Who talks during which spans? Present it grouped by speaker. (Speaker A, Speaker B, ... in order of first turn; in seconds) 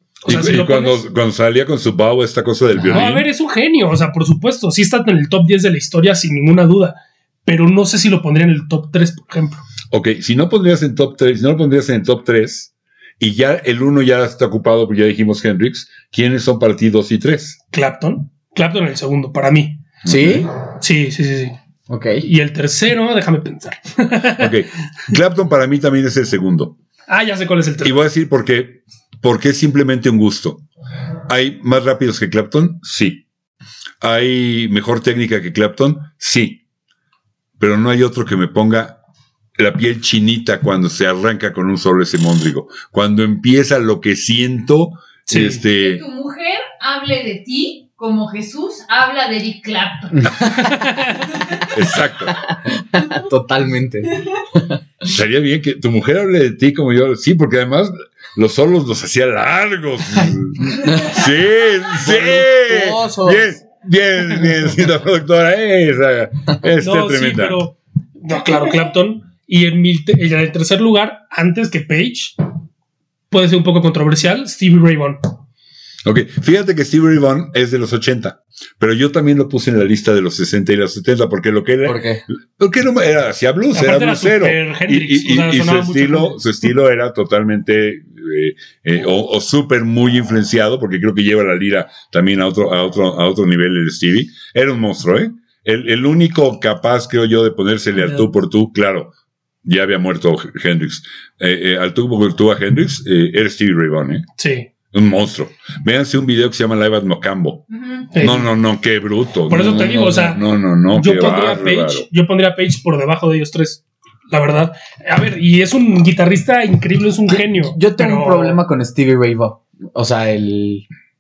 Speaker A: 0.2-1.0, 2.9-9.6, 17.7-19.9, 20.7-21.6, 22.2-24.6, 27.1-28.0, 45.3-45.6, 50.7-51.1, 66.8-72.4, 73.3-75.3, 83.7-86.5, 104.4-104.7, 108.1-108.5, 109.5-118.6
Speaker B: 0.3-3.3, 9.9-17.6, 20.0-20.5, 24.4-26.7, 27.8-30.6, 31.3-33.2, 34.0-36.6, 37.6-39.0, 39.6-46.0, 51.7-52.4, 55.1-67.6, 76.0-99.1, 99.7-104.2, 104.9-112.1
Speaker C: 2.7-3.1, 20.1-20.5, 21.9-22.3, 50.1-50.9, 52.3-54.8, 60.6-61.3, 61.9-63.6, 81.8-82.2, 117.3-120.8
Speaker D: 45.7-50.5, 107.7-108.1